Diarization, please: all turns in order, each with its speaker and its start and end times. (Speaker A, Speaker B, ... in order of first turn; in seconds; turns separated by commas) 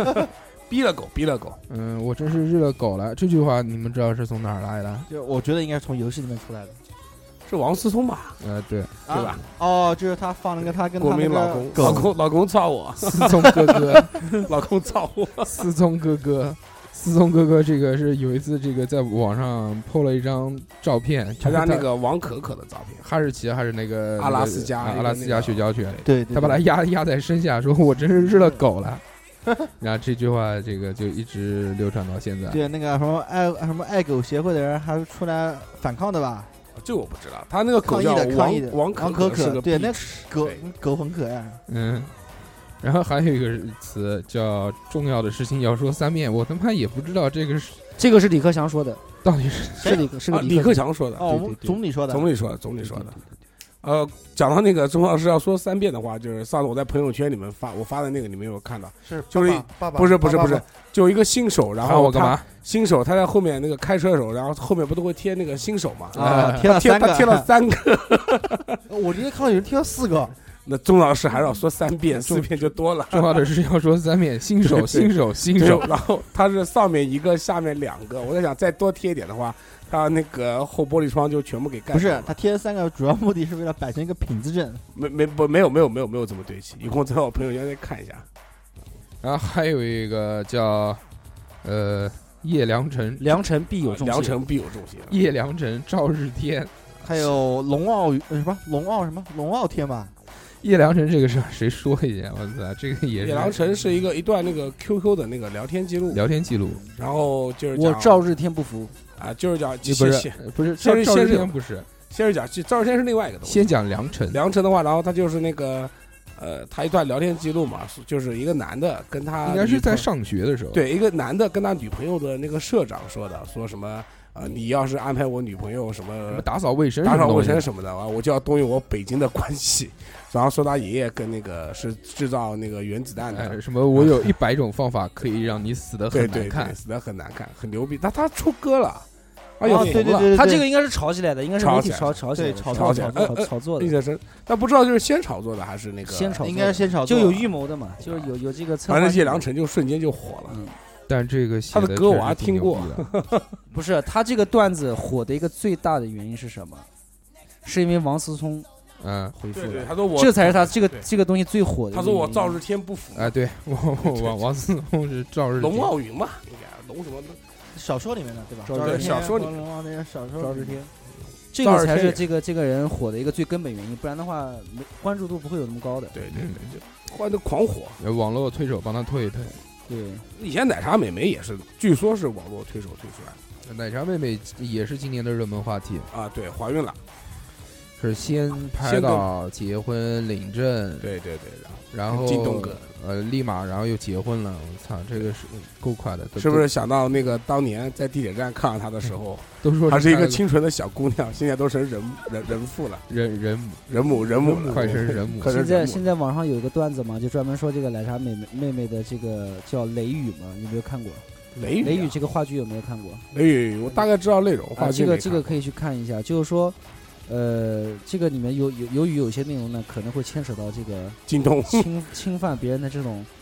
Speaker A: 0.7-1.6, Speaker B: 1.7-5.1, Speaker C: 5.1-6.8, Speaker A: 7.5-8.4, Speaker B: 8.4-8.9, Speaker C: 9.1-12.1, Speaker A: 9.1-9.4, Speaker A: 10.6-15.7, Speaker B: 11.8-12.1, Speaker B: 13.0-14.4, Speaker B: 15.4-21.9, Speaker A: 21.4-23.1, Speaker B: 23.0-29.0, Speaker A: 24.2-26.0, Speaker C: 26.1-26.7, Speaker C: 28.3-28.5, Speaker B: 29.8-32.6, Speaker C: 32.5-36.5, Speaker A: 36.8-40.6, Speaker C: 37.8-41.6, Speaker B: 41.7-42.1, Speaker B: 42.8-47.8, Speaker D: 48.0-49.0, Speaker B: 49.2-50.0, Speaker D: 49.8-51.8, Speaker A: 50.3-51.4, Speaker C: 51.2-52.3, Speaker A: 52.1-53.2, Speaker D: 52.9-53.2, Speaker A: 53.8-68.8, Speaker E: 59.0-60.6, Speaker B: 61.8-62.5, Speaker C: 66.1-67.5, Speaker B: 66.1-66.7, Speaker E: 68.9-70.4, Speaker A: 70.7-73.5, Speaker B: 73.1-75.9, Speaker A: 74.6-82.3, Speaker C: 81.9-84.8, Speaker A: 84.9-88.2, Speaker B: 89.2-91.0, Speaker B: 91.6-93.4, Speaker D: 93.2-94.4, Speaker A: 93.8-95.2, Speaker B: 95.1-96.7, Speaker C: 97.0-100.1, Speaker B: 100.6-103.6, Speaker A: 103.2-106.2, Speaker B: 106.1-106.9, Speaker A: 106.9-108.2, Speaker D: 107.7-108.9, Speaker A: 109.2-113.7, Speaker B: 109.8-111.9, Speaker B: 113.4-114.4, Speaker A: 114.3-120.1, Speaker B: 119.4-120.8, Speaker A: 120.7-126.5, Speaker B: 126.3-127.7, Speaker A: 127.0-134.3, Speaker B: 133.3-136.8, Speaker A: 136.1-139.1, Speaker A: 139.6-140.3, Speaker C: 139.6-140.6, Speaker D: 139.7-143.9, Speaker A: 141.6-146.7, Speaker C: 142.3-143.3, Speaker D: 146.1-149.4, Speaker C: 146.4-147.5, Speaker A: 148.0-148.3, Speaker A: 148.9-150.6, Speaker D: 150.5-150.8, Speaker B: 151.1-153.1, Speaker A: 151.7-153.5, Speaker D: 153.7-156.9, Speaker D: 157.6-158.7, Speaker B: 159.0-159.4, Speaker D: 159.4-162.6, Speaker A: 159.5-161.1, Speaker A: 161.9-163.3, Speaker B: 163.1-165.9, Speaker A: 164.0-164.4, Speaker A: 165.6-167.4, Speaker C: 167.7-170.8, Speaker D: 168.7-169.4, Speaker A: 168.8-169.6, Speaker D: 170.4-170.9, Speaker D: 171.5-176.2, Speaker A: 171.6-172.2, Speaker A: 176.1-178.0, Speaker B: 176.3-176.8, Speaker B: 178.0-179.6, Speaker D: 179.9-180.3, Speaker A: 180.3-183.4, Speaker B: 183.6-186.1, Speaker A: 186.1-187.0, Speaker B: 188.0-191.1, Speaker A: 188.7-189.3, Speaker A: 191.0-192.8, Speaker B: 191.9-196.7, Speaker A: 196.4-203.1, Speaker B: 199.6-200.4, Speaker B: 203.1-205.6, Speaker A: 203.9-206.1, Speaker D: 205.4-211.2, Speaker A: 211.6-212.2, Speaker D: 211.8-213.2, Speaker A: 213.3-215.6, Speaker D: 214.8-216.8, Speaker D: 217.3-223.3, Speaker A: 221.3-221.9